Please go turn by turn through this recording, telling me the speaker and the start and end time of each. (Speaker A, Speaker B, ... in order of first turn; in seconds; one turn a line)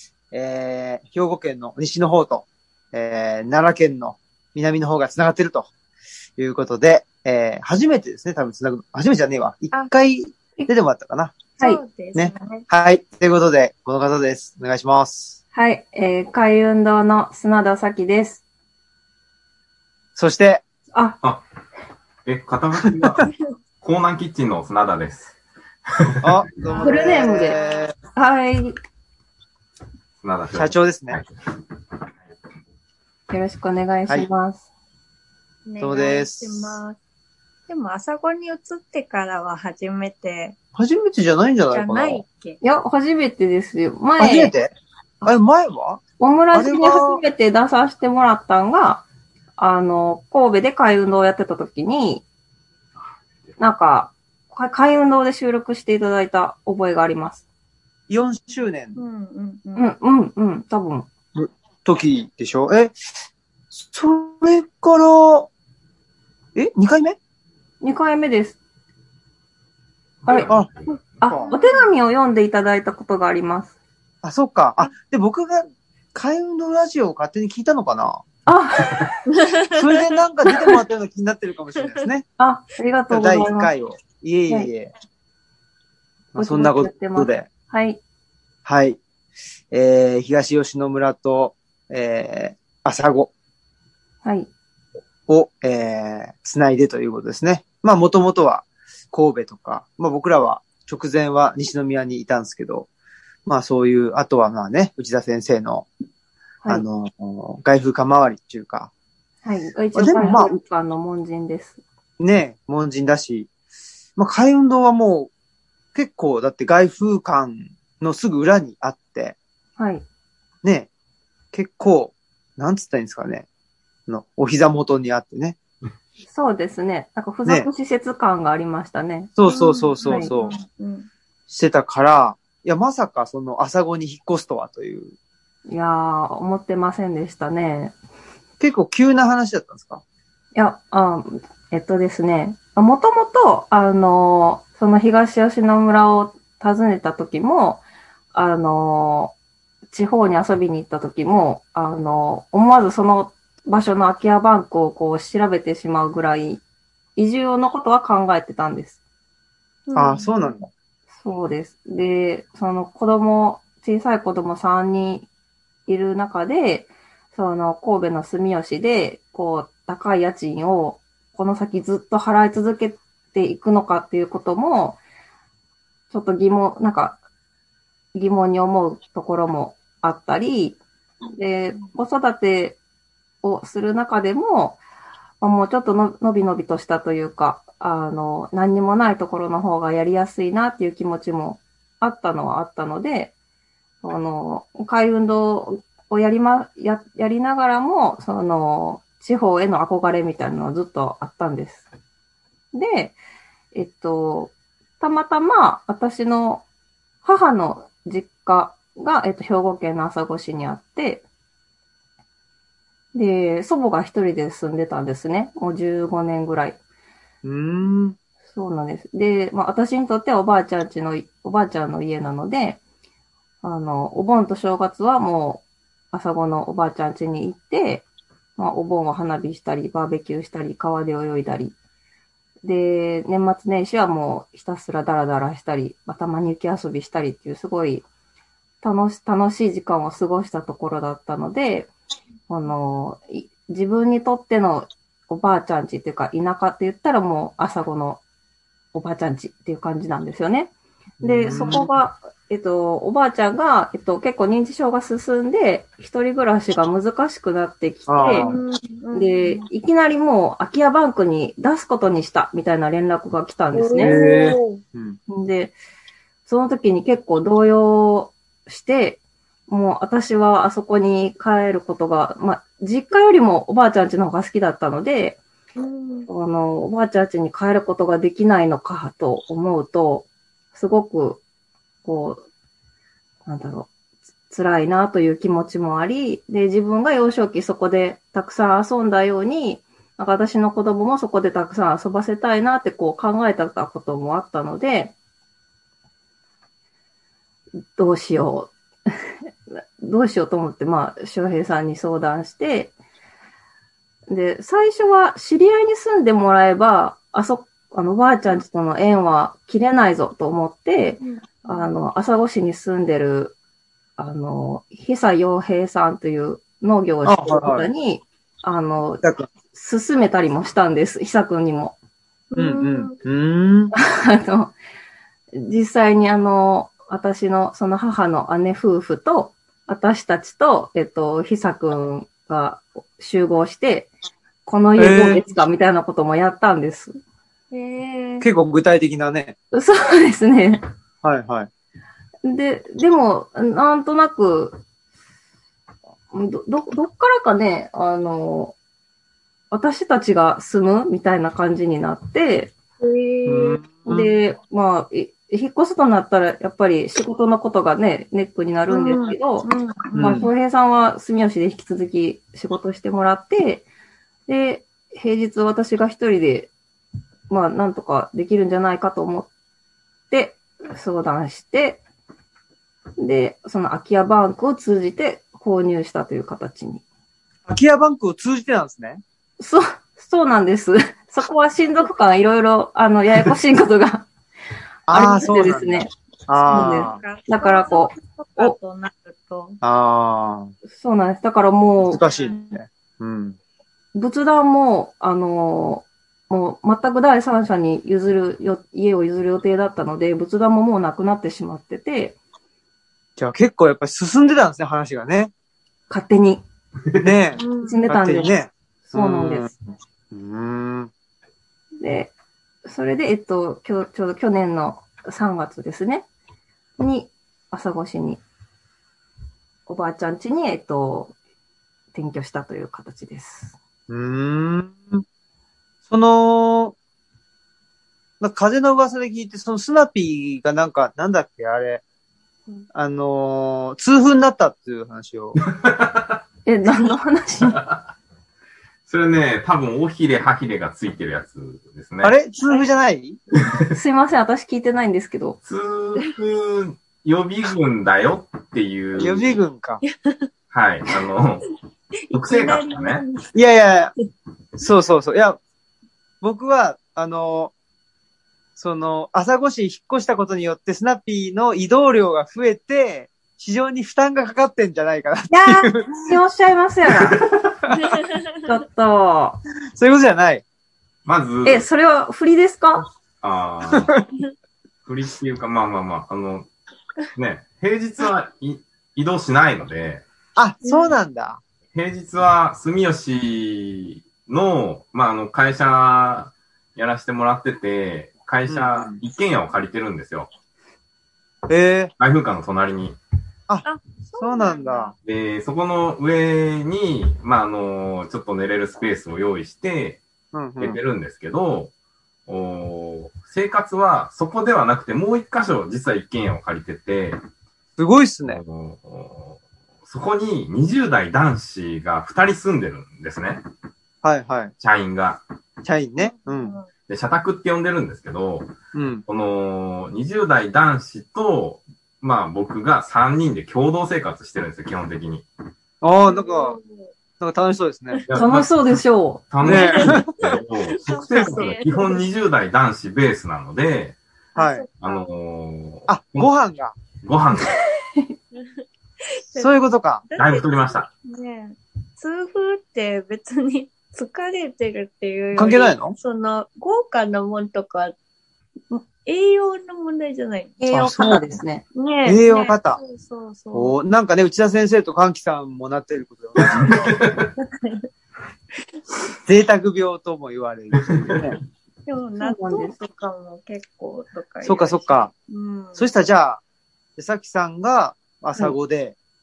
Speaker A: 0.3-5.7
Speaker A: 6.4-11.4
Speaker B: 11.6-12.6
Speaker A: 12.2-15.4
Speaker C: 15.5-18.4
Speaker A: 20.1-20.6
Speaker C: 20.9-21.2
Speaker D: 22.3-23.3
Speaker A: 22.9-23.3
Speaker D: 23.8-25.4
Speaker D: 25.9-26.4
Speaker A: 26.2-27.9
Speaker B: 26.6-27.8
Speaker C: 26.8-27.6
Speaker C: 28.1-28.8
Speaker D: 30.2-31.3
Speaker A: 30.6-31.2
Speaker C: 33.3-34.6
Speaker B: 35.7-37.0
Speaker A: 35.8-36.8
Speaker B: 37.7-40.5
Speaker A: 40.8-42.2
Speaker B: 41.7-42.6
Speaker C: 42.6-44.5
Speaker A: 44.2-46.0
Speaker C: 46.2-49.0
Speaker A: 46.5-47.2
Speaker C: 49.6-52.2
Speaker C: 53.6-57.4
Speaker A: 58.1-59.0
Speaker B: 59.0-59.9
Speaker C: 59.8-61.1
Speaker A: 61.4-63.0
Speaker A: 63.7-65.5
Speaker A: 66.5-67.2
Speaker C: 67.8-68.6
Speaker D: 70.2-71.0
Speaker C: 71.2-73.7
Speaker A: 71.2-71.5
Speaker B: 71.4-71.9
Speaker A: 74.2-78.2
Speaker C: 78.5-79.2
Speaker A: 79.7-82.2
Speaker C: 82.4-83.7
Speaker A: 83.1-84.9
Speaker A: 86.3-87.5
Speaker C: 86.4-88.0
Speaker A: 88.7-89.0
Speaker A: 89.7-93.3
Speaker C: 94.2-94.5
Speaker A: 95.3-102.9
Speaker A: 103.5-105.9
Speaker A: 106.7-108.9
Speaker C: 109.4-111.8
Speaker A: 110.0-110.5
Speaker A: 112.2-113.5
Speaker A: 114.2-115.3
Speaker A: 115.9-119.4
Speaker C: 119.8-120.0
Speaker A: 120.6-120.9
Speaker A: 121.5-123.5
Speaker A: 124.1-125.6
Speaker C: 126.3-129.3
Speaker A: 129.4-130.5
Speaker B: 129.5-131.1
Speaker C: 130.0-130.3
Speaker A: 131.5-135.1
Speaker C: 135.7-137.9
Speaker A: 138.6-140.0
Speaker C: 140.6-149.3
Speaker C: 149.9-156.6
Speaker C: 157.2-159.0
Speaker B: 159.9-160.5
Speaker A: 159.9-160.7
Speaker C: 161.2-165.3
Speaker C: 165.9-175.0
Speaker C: 176.1-177.2
Speaker C: 178.2-180.8
Speaker C: 181.4-182.8
Speaker C: 183.4-184.8
Speaker C: 185.4-193.3
Speaker C: 194.0-201.9
Speaker C: 202.7-203.2
Speaker C: 203.7-206.7
Speaker C: 207.2-211.2
Speaker C: 213.1-216.8
Speaker A: 217.4-218.2
Speaker C: 218.5-222.8
Speaker C: 223.6-228.1
Speaker C: 228.6-231.8
Speaker C: 232.6-238.1
Speaker C: 238.8-241.9
Speaker C: 242.5-248.2
Speaker C: 248.9-258.5
Speaker A: 251.2-251.9
Speaker A: 258.1-258.6
Speaker B: 258.3-259.6
Speaker C: 259.1-264.1
Speaker B: 263.7-264.8
Speaker A: 264.0-265.2
Speaker C: 265.3-265.7
Speaker C: 266.5-275.4
Speaker B: 275.8-276.3
Speaker C: 276.3-281.4
Speaker C: 282.1-282.4
Speaker C: 283.5-283.9
Speaker C: 284.5-295.1
Speaker C: 298.0-298.7
Speaker C: 299.8-302.9
Speaker C: 304.3-313.6
Speaker B: 311.2-311.9
Speaker C: 314.2-322.0
Speaker A: 317.2-317.9
Speaker A: 319.2-319.5
Speaker B: 322.5-323.1
Speaker A: 322.6-323.9
Speaker C: 323.9-324.7
Speaker C: 325.6-334.1
Speaker C: 334.6-337.2
Speaker A: 335.0-335.4
Speaker B: 337.7-338.5
Speaker A: 338.4-339.6
Speaker C: 339.7-340.8
Speaker A: 341.2-341.7
Speaker C: 342.4-344.8
Speaker C: 346.3-348.8
Speaker C: 349.7-352.7
Speaker B: 353.0-353.9
Speaker A: 353.5-354.3
Speaker C: 354.1-359.7
Speaker B: 358.9-360.4
Speaker A: 360.1-360.5
Speaker C: 360.2-363.9
Speaker C: 364.5-366.7
Speaker C: 367.5-369.5
Speaker C: 370.3-372.0
Speaker C: 373.2-377.0
Speaker A: 377.7-379.2
Speaker C: 379.6-384.3
Speaker A: 385.1-387.2
Speaker C: 385.1-386.1
Speaker B: 386.7-389.8
Speaker C: 386.7-388.8
Speaker A: 389.8-390.7
Speaker C: 390.9-392.2
Speaker A: 392.1-393.6
Speaker B: 392.3-392.6
Speaker C: 394.1-402.4
Speaker A: 403.4-405.5
Speaker C: 406.1-406.6
Speaker A: 407.2-409.7
Speaker B: 407.6-408.1
Speaker C: 407.8-408.5
Speaker C: 409.1-409.7
Speaker A: 410.3-411.1
Speaker C: 412.0-412.3
Speaker C: 412.9-416.3
Speaker C: 417.0-418.4
Speaker C: 419.9-421.4
Speaker C: 422.1-423.8
Speaker A: 424.1-425.2
Speaker A: 426.1-427.0
Speaker A: 428.4-432.0
Speaker A: 432.9-435.6
Speaker D: 435.6-436.4
Speaker C: 436.7-437.8
Speaker D: 437.7-438.1
Speaker D: 439.1-442.3
Speaker A: 442.2-443.4
Speaker C: 443.9-445.6
Speaker D: 445.6-449.6
Speaker A: 449.1-450.0
Speaker D: 450.7-451.7
Speaker B: 452.3-453.5
Speaker D: 452.3-453.2
Speaker A: 453.5-454.1
Speaker A: 454.8-455.6
Speaker A: 456.4-457.7
Speaker A: 458.8-466.4
Speaker C: 465.5-467.4
Speaker D: 467.1-467.7
Speaker B: 468.1-468.4
Speaker C: 468.6-469.6
Speaker A: 470.0-470.6
Speaker D: 471.3-471.9
Speaker C: 471.6-473.1
Speaker D: 473.4-474.2
Speaker A: 473.9-474.2
Speaker D: 475.1-476.7
Speaker D: 477.4-480.2
Speaker A: 480.6-481.6
Speaker B: 480.8-481.1
Speaker D: 481.9-490.5
Speaker A: 488.7-489.2
Speaker A: 491.7-492.1
Speaker D: 492.2-493.2
Speaker B: 493.8-495.1
Speaker A: 494.4-495.1
Speaker D: 495.2-500.2
Speaker A: 500.5-501.0
Speaker D: 500.8-501.9
Speaker D: 502.5-507.4
Speaker A: 508.0-508.6
Speaker D: 508.5-513.6
Speaker A: 514.2-514.7
Speaker D: 514.8-515.4
Speaker A: 515.9-516.8
Speaker B: 516.2-516.9
Speaker D: 517.1-518.7
Speaker A: 518.9-519.2
Speaker D: 519.3-525.5
Speaker A: 526.0-526.8
Speaker B: 526.3-527.1
Speaker A: 527.4-528.2
Speaker D: 528.3-528.7
Speaker C: 528.4-529.9
Speaker D: 529.5-534.2
Speaker A: 529.6-530.5
Speaker B: 531.0-532.2
Speaker A: 531.4-531.6
Speaker B: 534.5-535.3
Speaker A: 534.6-534.9
Speaker D: 535.0-536.5
Speaker A: 536.1-537.0
Speaker D: 537.2-537.7
Speaker B: 538.5-538.8
Speaker B: 539.5-548.1
Speaker A: 539.6-540.2
Speaker D: 540.4-541.1
Speaker A: 545.6-546.2
Speaker B: 548.9-550.8
Speaker C: 550.8-551.8
Speaker A: 550.9-551.5
Speaker B: 552.0-554.0
Speaker A: 552.2-553.0
Speaker A: 553.7-557.4
Speaker D: 556.6-557.5
Speaker B: 557.6-558.0
Speaker A: 559.5-561.6
Speaker D: 561.1-561.5
Speaker B: 562.1-566.0
Speaker C: 562.4-562.9
Speaker A: 564.6-565.3
Speaker A: 566.0-566.6
Speaker A: 567.2-569.1